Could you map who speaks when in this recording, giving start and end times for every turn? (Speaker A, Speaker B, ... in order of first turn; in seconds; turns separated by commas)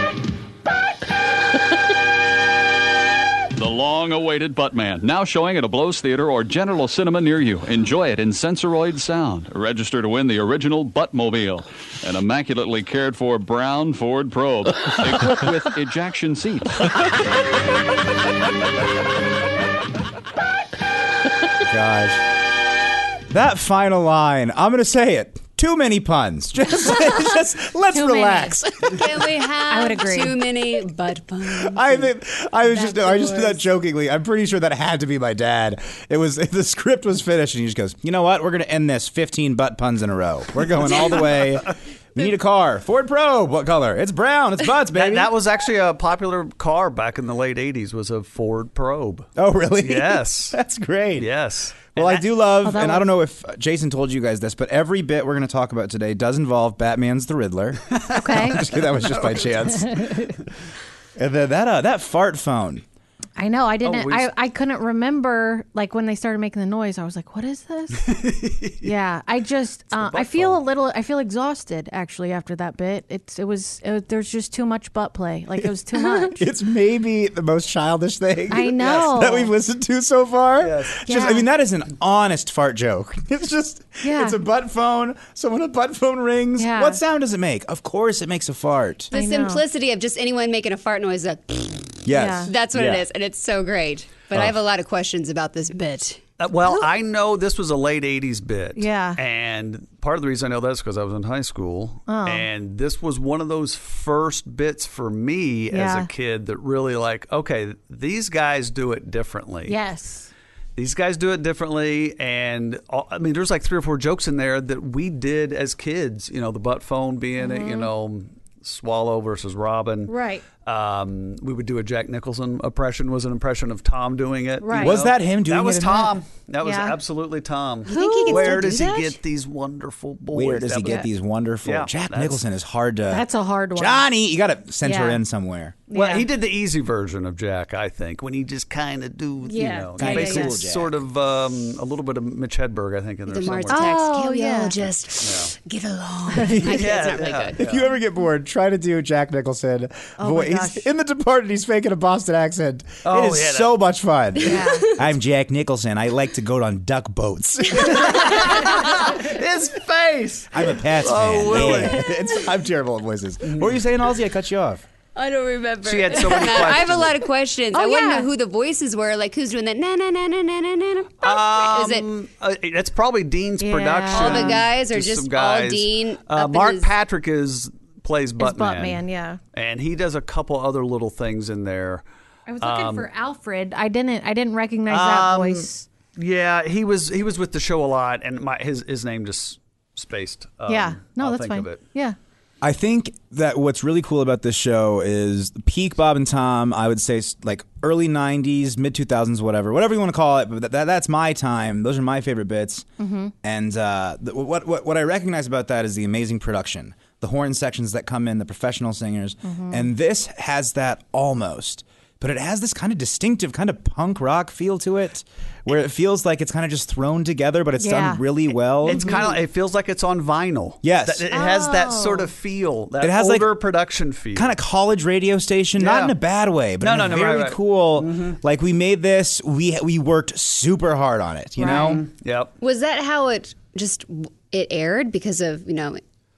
Speaker A: 3.5-16.8, Speaker B: 21.6-22.2, Speaker B: 23.3-29.1, Speaker C: 27.9-28.6, Speaker D: 28.9-32.1, Speaker C: 29.7-30.5, Speaker B: 31.5-45.3, Speaker D: 32.7-33.6, Speaker E: 40.8-41.6, Speaker E: 44.9-50.6, Speaker B: 49.4-51.3, Speaker E: 51.2-52.3, Speaker B: 51.8-60.0, Speaker C: 52.6-53.1, Speaker E: 57.9-59.6, Speaker C: 58.1-58.7, Speaker C: 59.8-60.3, Speaker B: 61.2-62.8, Speaker C: 63.4-68.1, Speaker E: 63.8-64.3, Speaker E: 67.9-68.9, Speaker C: 68.8-76.4, Speaker E: 69.9-70.6, Speaker B: 76.2-89.1, Speaker C: 78.5-79.5, Speaker E: 78.8-79.1, Speaker E: 80.6-81.0, Speaker C: 81.1-81.5, Speaker C: 84.0-84.4, Speaker C: 86.6-87.0, Speaker D: 89.1-92.0, Speaker C: 89.1-89.6, Speaker B: 92.0-93.0, Speaker C: 92.1-92.5, Speaker D: 92.5-96.3, Speaker E: 96.4-109.8, Speaker C: 98.8-99.2, Speaker C: 102.1-102.5, Speaker C: 105.7-106.1, Speaker C: 109.7-110.3, Speaker E: 110.8-120.1, Speaker C: 117.4-117.9, Speaker C: 120.1-120.4, Speaker E: 120.6-131.1, Speaker C: 124.6-125.0, Speaker B: 124.7-126.2, Speaker C: 126.6-127.0, Speaker C: 127.9-129.1, Speaker D: 128.0-128.9, Speaker B: 130.3-135.8, Speaker E: 131.7-132.4, Speaker C: 133.1-134.1, Speaker C: 134.8-135.2, Speaker C: 135.9-136.3, Speaker E: 135.9-144.0, Speaker C: 139.4-140.6, Speaker B: 140.0-140.9, Speaker D: 143.3-147.6, Speaker C: 143.7-144.8, Speaker E: 145.2-145.5, Speaker B: 146.5-146.8, Speaker E: 146.6-147.9, Speaker B: 147.6-158.4, Speaker C: 150.2-150.9, Speaker E: 153.1-153.8, Speaker C: 154.4-154.9, Speaker E: 158.0-162.1, Speaker B: 160.5-164.8, Speaker E: 163.4-163.8, Speaker D: 165.2-172.1, Speaker E: 165.8-167.2, Speaker C: 167.7-168.3, Speaker E: 171.2-179.0, Speaker C: 173.6-174.6, Speaker D: 174.1-176.9, Speaker C: 178.4-179.4, Speaker E: 179.5-182.1, Speaker C: 182.5-185.9, Speaker E: 182.6-183.1, Speaker E: 184.9-191.8, Speaker C: 190.7-192.2, Speaker B: 192.6-202.9, Speaker C: 203.0-203.3, Speaker B: 203.4-219.2, Speaker C: 209.4-209.9, Speaker C: 217.8-218.2, Speaker C: 218.8-219.4, Speaker E: 218.8-224.6, Speaker B: 220.8-221.3, Speaker C: 221.3-222.3, Speaker B: 223.0-223.6, Speaker B: 224.3-232.0, Speaker E: 225.8-226.2, Speaker E: 226.8-228.4, Speaker C: 231.6-232.0, Speaker E: 231.6-232.5, Speaker D: 232.6-236.0